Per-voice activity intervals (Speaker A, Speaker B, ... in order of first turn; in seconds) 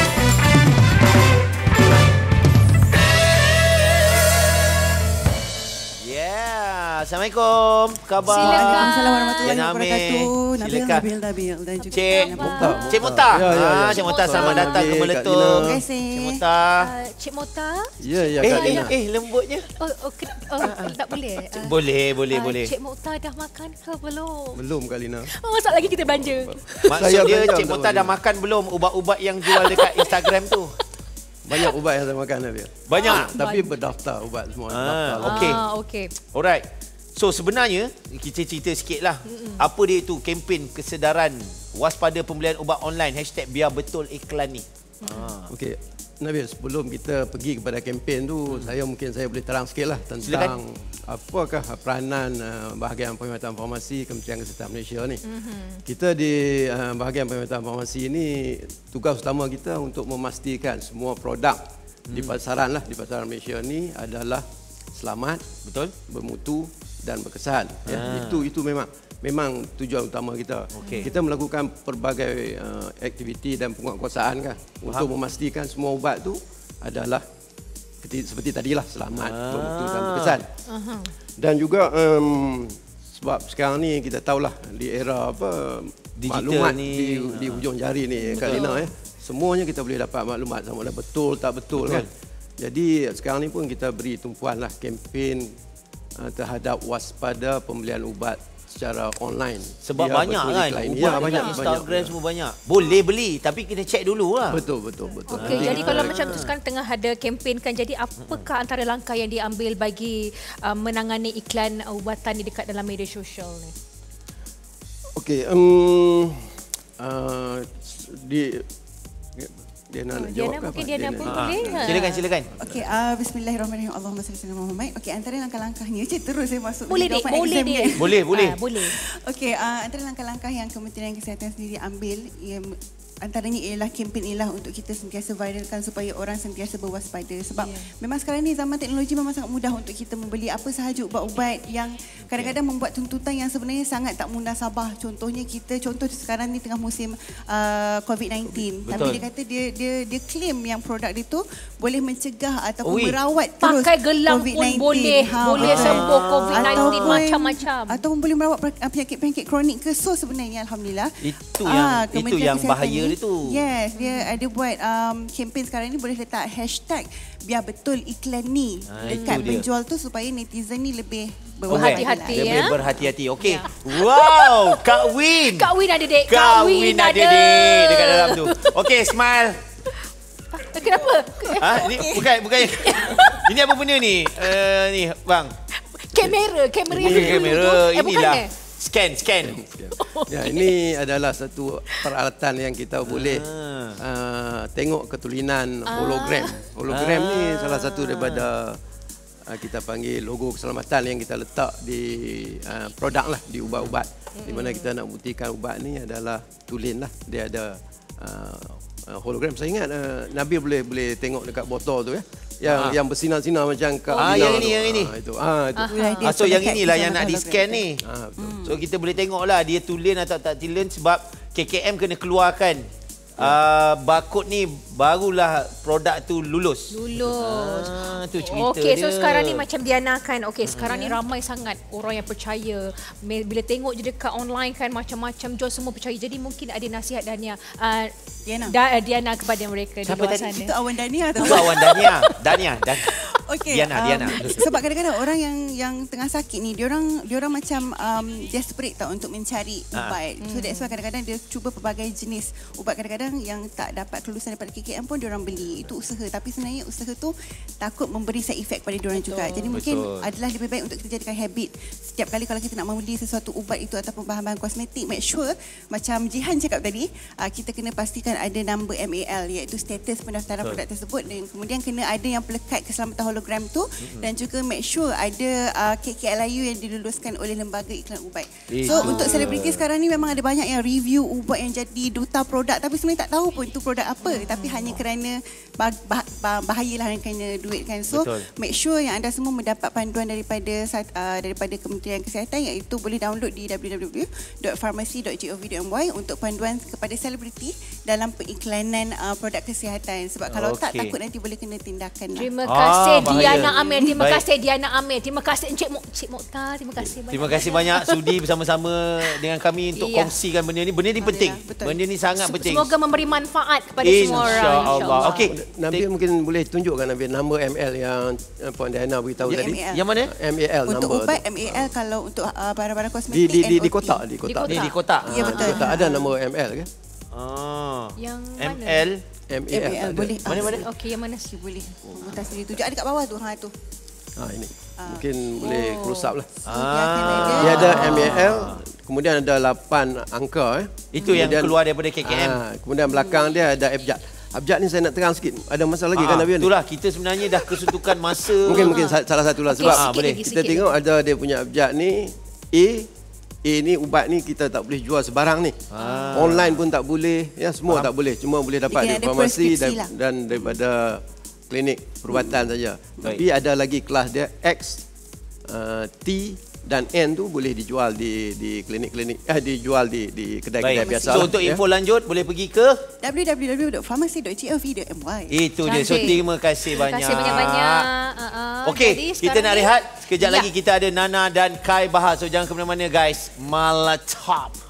Speaker A: 6.0-11.1, 11.9-16.9, 18.4-19.7, 20.6-21.0, 21.5-22.7, 26.9-30.8, 32.9-33.3, 34.7-35.6, 36.3-45.5, 50.2-50.6, 62.1-62.4, 65.6-65.9, 67.9-68.5, 70.7-71.1, 79.1-80.4, 86.2-87.7, 88.2-88.7, 91.7-92.1, 99.8-104.6, 105.3-106.5, 121.2-122.5, 127.9-128.6, 142.3-142.5, 148.8-149.2, 152.8-153.2, 155.6-157.2, 161.2-163.6, 168.9-169.7, 171.7-175.7, 176.3-179.6, 181.6-185.5, 186.9-189.6, 193.1-194.0, 196.9-198.5, 203.7-204.0, 212.7-213.0, 214.2-215.2, 216.2-218.0, 218.6-229.7, 230.6-231.2, 241.4-243.1, 243.7-244.7, 249.9-250.2, 259.7-260.3, 274.0-274.3, 278.7-279.8, 288.1-288.4, 300.5-301.1, 302.6-304.4, 307.3-312.9, 314.0-316.1, 319.9-320.3, 324.7-325.7, 327.3-329.2, 330.4-330.9, 336.6-338.8, 341.1-342.6, 346.1-349.0, 349.8-350.4, 355.9-356.8, 370.8-373.0, 375.5-378.1, 378.8-384.8
Speaker B: 8.2-9.6, 11.8-14.9, 16.8-18.9, 19.8-24.6, 25.3-27.1, 29.4-30.4, 32.9-33.7, 35.2-36.1, 39.3-39.6, 45.0-45.3, 55.2-55.8, 70.8-71.1, 80.6-81.1, 88.3-88.8, 101.0-101.6, 105.2-113.7, 120.1-122.2, 126.9-128.9, 137.6-137.9, 153.6-158.0, 164.0-164.4, 169.0-169.5, 171.7-172.8, 173.4-178.9, 180.5-183.5, 185.7-188.5, 189.9-190.7, 195.9-196.7, 204.3-204.9, 214.1-214.6, 215.8-216.3, 226.9-240.8, 241.3-242.4, 244.4-244.7, 250.4-250.9, 259.1-259.8, 278.8-279.3, 284.2-285.0, 302.4-308.3, 309.9-310.3, 312.4-315.5, 324.4-326.0, 328.2-329.1, 330.7-331.5, 335.6-336.3, 338.0-338.4, 341.1-341.5, 348.6-351.0, 355.9-356.7, 375.9-380.7
Speaker C: 8.3-12.8, 15.6-16.4, 122.6-172.9, 180.8-182.2, 215.9-217.8, 218.4-218.8, 238.4-238.7, 240.1-242.1, 243.1-302.5, 303.2-304.2, 311.1-312.0, 319.4-320.1, 320.9-324.2, 324.8-326.3, 329.7-333.7, 335.0-335.3, 336.7-338.4, 343.1-343.6, 358.9-360.1, 362.3-362.6, 370.9-371.6, 373.2-376.4
Speaker D: 12.4-15.8, 18.0-18.9, 24.5-25.3, 25.9-28.2, 31.4-35.6, 45.5-55.2, 55.8-65.5, 66.1-77.2, 78.0-80.5, 81.4-95.6, 96.2-102.2, 104.5-106.4, 115.1-118.7, 119.3-122.0, 186.9-187.6, 189.4-198.8, 199.4-216.0, 218.0-218.5, 314.7-321.9, 323.3-326.9, 329.5-330.8, 334.4-336.5, 337.3-346.7, 347.6-347.9, 348.6-353.1, 353.6-365.0, 365.6-371.8